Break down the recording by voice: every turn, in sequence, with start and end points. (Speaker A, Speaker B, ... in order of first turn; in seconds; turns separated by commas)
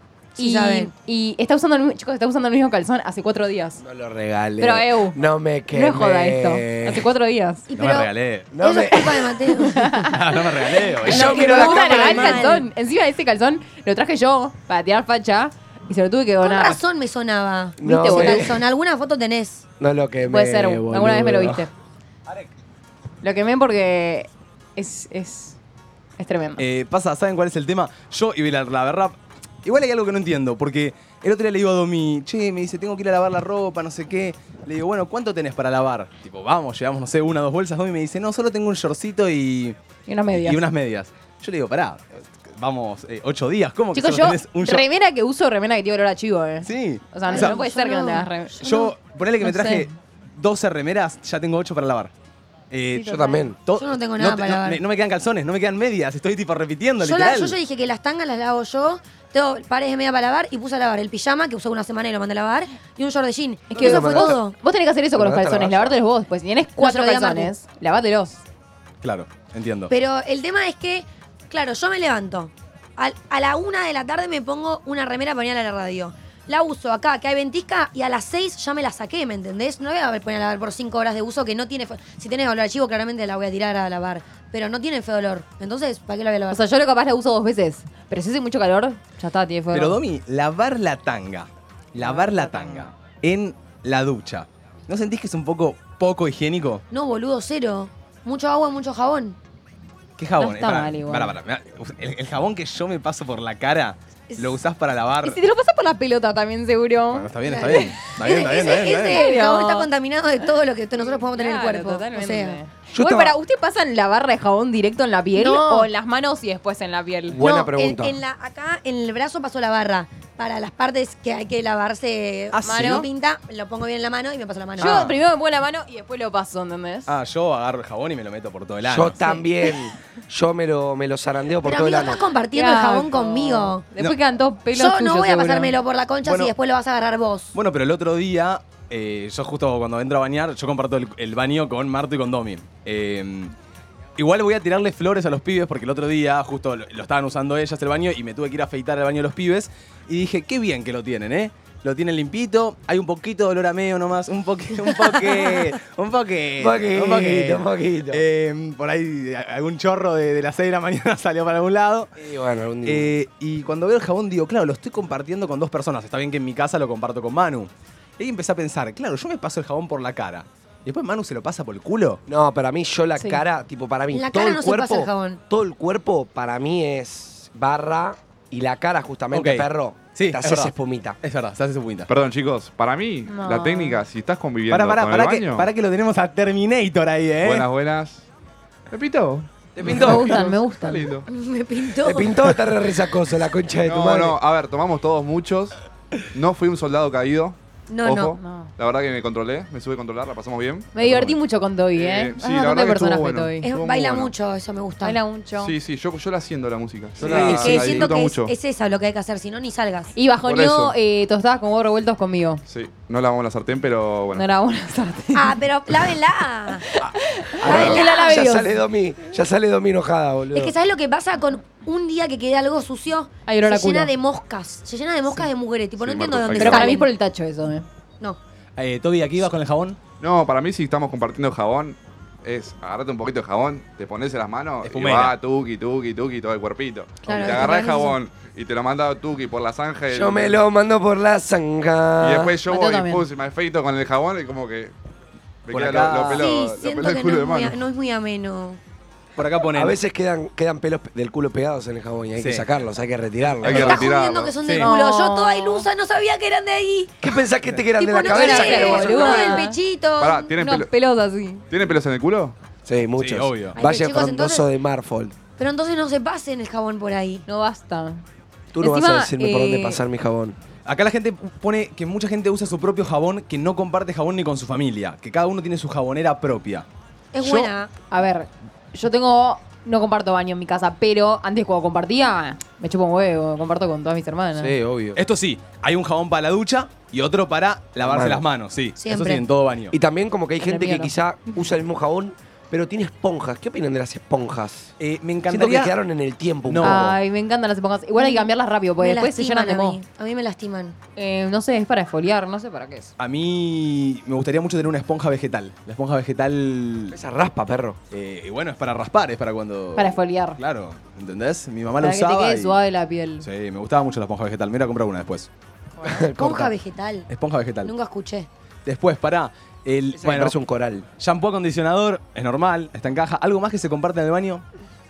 Speaker A: 0.4-0.9, Speaker B: 0.4-3.8, Speaker C: 3.8-7.1, Speaker B: 4.6-5.2, Speaker B: 5.7-7.6, Speaker A: 7.7-10.0, Speaker D: 7.8-8.5, Speaker C: 8.5-9.3, Speaker B: 9.6-10.2, Speaker D: 10.1-11.5, Speaker C: 11.0-12.6, Speaker A: 11.1-12.7, Speaker B: 11.1-16.8, Speaker A: 16.4-19.6, Speaker C: 17.8-18.6, Speaker B: 17.8-18.5, Speaker C: 19.8-21.7, Speaker B: 20.2-21.7, Speaker B: 23.2-25.6, Speaker B: 26.2-26.6, Speaker D: 26.6-39.8, Speaker B: 40.1-40.6, Speaker D: 40.3-44.9, Speaker B: 43.9-48.7, Speaker D: 46.6-47.6, Speaker A: 47.3-48.9, Speaker D: 48.6-52.1, Speaker B: 49.4-49.9, Speaker D: 52.7-53.1, Speaker B: 53.0-53.5, Speaker C: 53.0-53.6, Speaker D: 53.6-57.6, Speaker A: 53.8-54.8, Speaker A: 57.0-64.5, Speaker D: 63.7-64.4, Speaker B: 63.7-68.4, Speaker C: 65.1-66.0, Speaker A: 66.8-67.5, Speaker D: 69.0-69.9, Speaker A: 69.9-86.6, Speaker B: 86.5-90.0, Speaker D: 89.7-96.8, Speaker B: 92.0-92.9, Speaker A: 96.9-99.4, Speaker D: 100.2-105.4, Speaker B: 100.4-101.4, Speaker B: 105.2-107.2, Speaker D: 107.1-109.3, Speaker A: 107.4-112.6, Speaker B: 108.9-109.9, Speaker B: 111.0-117.4, Speaker C: 112.9-113.4, Speaker A: 115.4-115.9, Speaker C: 117.3-118.2, Speaker A: 117.4-125.1, Speaker D: 122.5-123.1, Speaker B: 122.6-123.0, Speaker B: 124.8-127.1, Speaker D: 124.8-125.1, Speaker D: 127.1-129.3, Speaker C: 128.8-132.2, Speaker A: 131.6-133.8, Speaker B: 132.5-135.7, Speaker A: 134.7-137.5, Speaker D: 136.2-136.5, Speaker D: 137.5-143.5, Speaker D: 144.2-162.1, Speaker C: 156.6-158.2, Speaker C: 162.2-163.1, Speaker D: 162.8-172.2, Speaker C: 172.3-181.2, Speaker A: 174.1-175.4, Speaker D: 179.3-182.1, Speaker E: 182.1-185.7, Speaker B: 183.3-184.0, Speaker D: 184.7-187.7, Speaker E: 187.4-188.2, Speaker E: 188.9-191.2, Speaker C: 189.8-190.2, Speaker B: 189.9-191.1, Speaker A: 191.3-192.5, Speaker C: 192.0-194.4, Speaker E: 193.8-195.8, Speaker E: 196.3-201.4, Speaker A: 197.9-198.4, Speaker B: 198.4-198.7, Speaker B: 200.9-203.7, Speaker E: 201.9-204.3, Speaker A: 203.6-205.2, Speaker B: 205.0-205.7, Speaker E: 205.6-208.5, Speaker C: 207.2-208.1, Speaker A: 207.3-210.1, Speaker B: 207.3-207.8, Speaker B: 210.1-212.6, Speaker E: 210.4-210.9, Speaker E: 212.7-214.4, Speaker B: 214.3-215.6, Speaker A: 215.3-216.8, Speaker B: 216.9-218.7, Speaker E: 217.6-218.0, Speaker C: 217.6-220.7, Speaker A: 217.7-218.5, Speaker A: 220.5-227.1, Speaker B: 223.4-224.1, Speaker C: 226.0-226.9, Speaker E: 226.1-226.9, Speaker B: 226.6-227.8, Speaker D: 228.8-230.0, Speaker E: 230.2-240.6, Speaker D: 234.8-235.3, Speaker A: 237.3-238.2, Speaker C: 240.1-242.6, Speaker E: 242.2-244.9, Speaker B: 242.6-243.2, Speaker E: 245.7-247.8, Speaker D: 245.7-246.4, Speaker A: 246.3-248.8, Speaker D: 249.4-250.0, Speaker C: 249.7-254.1, Speaker D: 252.4-252.7, Speaker E: 253.6-254.5, Speaker A: 253.6-257.2, Speaker D: 254.6-254.9, Speaker B: 254.7-255.9, Speaker C: 257.2-259.6, Speaker A: 258.0-260.5, Speaker B: 258.2-259.8, Speaker E: 260.2-260.9, Speaker B: 260.6-261.6, Speaker E: 261.7-262.5, Speaker C: 262.9-265.4, Speaker D: 263.2-263.7, Speaker A: 263.8-264.6, Speaker A: 265.6-267.4, Speaker B: 267.5-268.2, Speaker C: 268.7-270.6, Speaker B: 268.8-270.0, Speaker D: 270.8-276.9, Speaker A: 277.3-277.9, Speaker D: 277.4-277.7, Speaker B: 278.1-284.8, Speaker C: 284.6-285.2, Speaker D: 285.1-289.9, Speaker C: 288.0-288.4, Speaker A: 289.0-289.4, Speaker C: 289.9-294.9, Speaker B: 290.6-291.1, Speaker D: 295.0-295.9, Speaker C: 295.5-297.1, Speaker D: 296.6-297.1, Speaker B: 296.8-300.0, Speaker A: 298.2-300.9, Speaker B: 301.2-303.1, Speaker D: 303.2-307.2, Speaker C: 307.1-308.0, Speaker D: 308.1-312.8, Speaker B: 310.0-310.6, Speaker B: 312.0-313.4, Speaker D: 313.4-315.5, Speaker C: 316.0-316.7, Speaker A: 316.4-317.3, Speaker D: 317.3-317.9, Speaker A: 317.8-318.5, Speaker D: 318.9-320.6, Speaker C: 320.1-321.1, Speaker D: 321.2-324.6